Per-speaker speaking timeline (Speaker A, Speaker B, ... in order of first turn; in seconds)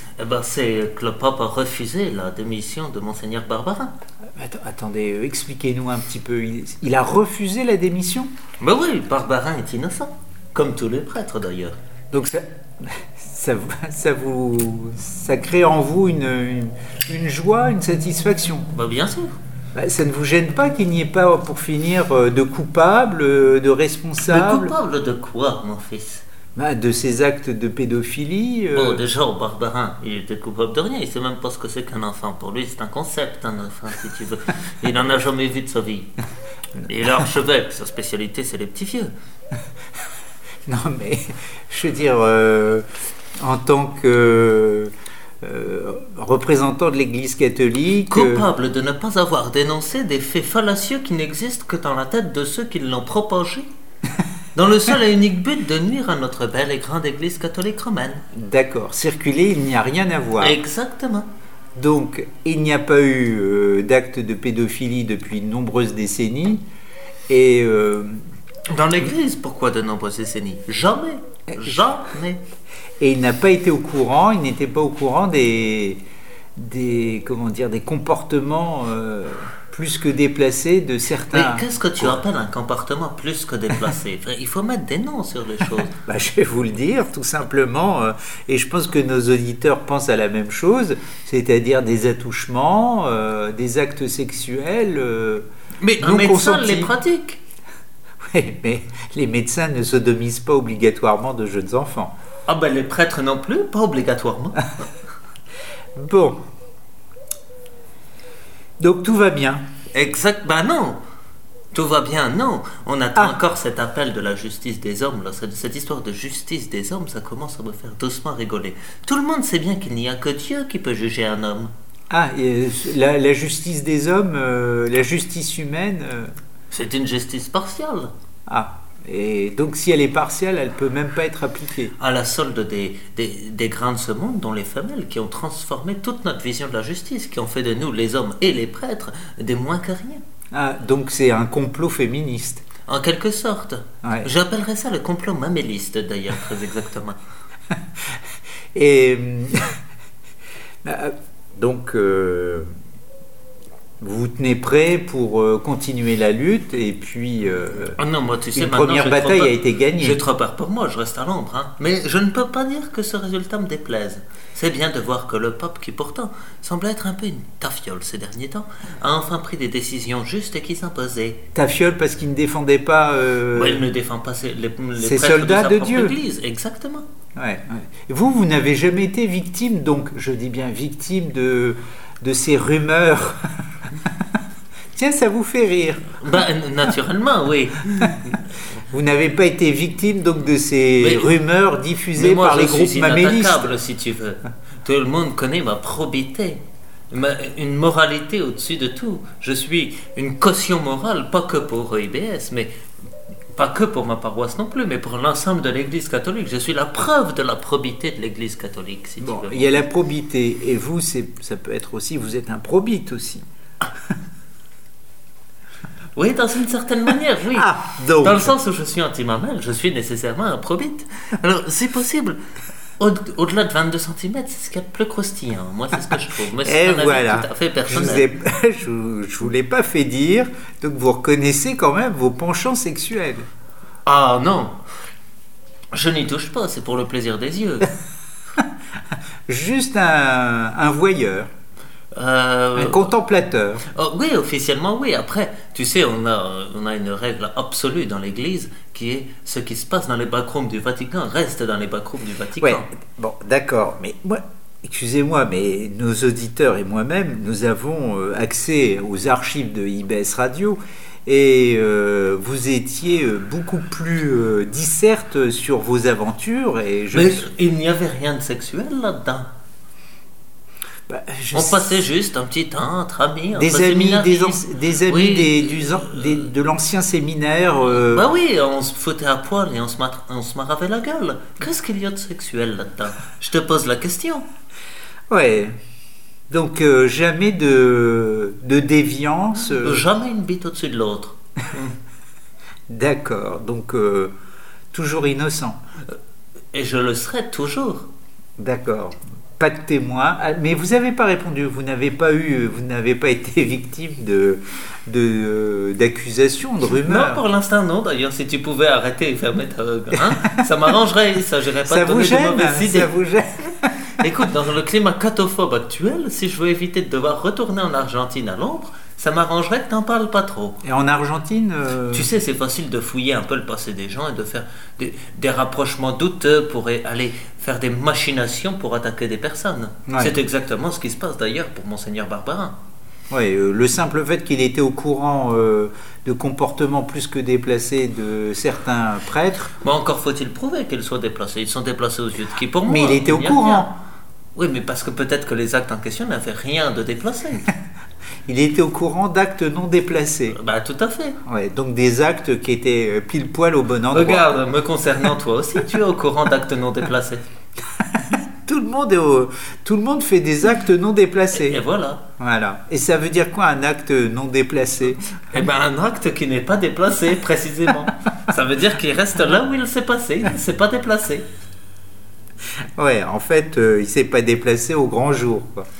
Speaker A: 0.2-3.9, 8.6-11.8, 18.7-19.4, 24.2-26.2, 28.7-36.1, 36.8-39.1, 48.1-53.7, 54.5-58.2, 60.4-61.3, 68.7-72.4, 81.3-85.9, 95.8-97.4, 102.5-104.9, 109.9-111.0, 111.7-121.7, 126.7-128.1, 132.0-140.2, 142.8-147.2, 158.0-171.4, 173.5-177.0, 186.2-188.4, 191.0-191.3, 192.2-196.6, 197.1-202.7, 203.5-209.8, 216.2-222.4, 223.0-228.3, 234.1-234.8, 235.9-237.9, 242.1-243.1, 243.9-252.9, 267.1-269.5, 271.5-276.4, 277.9-284.4, 289.7-292.0, 296.7-298.1, 306.8-313.1, 314.2-320.8, 322.1-332.8, 339.8-343.9, 344.5-347.7, 350.5-351.4, 354.1-357.4, 361.5-362.2, 365.5-371.5
Speaker B: 4.3-8.3, 12.1-18.7, 19.7-24.7, 26.5-29.0, 40.7-42.8, 43.4-44.9, 45.4-48.5, 58.3-60.6, 61.8-66.6, 67.3-68.2, 73.0-76.0, 76.5-82.2, 85.9-95.5, 96.0-96.9, 98.2-102.1, 106.0-106.4, 108.8-109.6, 122.1-126.3, 128.5-131.9, 140.5-142.6, 144.0-144.3, 148.7-149.7, 150.8-152.7, 154.0-158.0, 158.5-160.2, 171.5-173.8, 175.0-176.1, 177.3-184.3, 184.9-186.3, 188.9-193.7, 209.2-213.4, 217.5-218.5, 226.6-233.5, 239.5-241.5, 242.8-243.8, 252.6-267.5, 271.1-272.0, 273.5-278.2, 285.3-285.7, 286.5-290.0, 292.9-294.3, 294.9-295.8, 298.6-307.4, 311.9-314.1, 320.8-322.3, 330.1-330.3, 333.3-339.7, 342.9-343.9, 348.5-350.6, 351.4-354.4, 358.1-361.8, 362.4-365.4, 373.0-375.9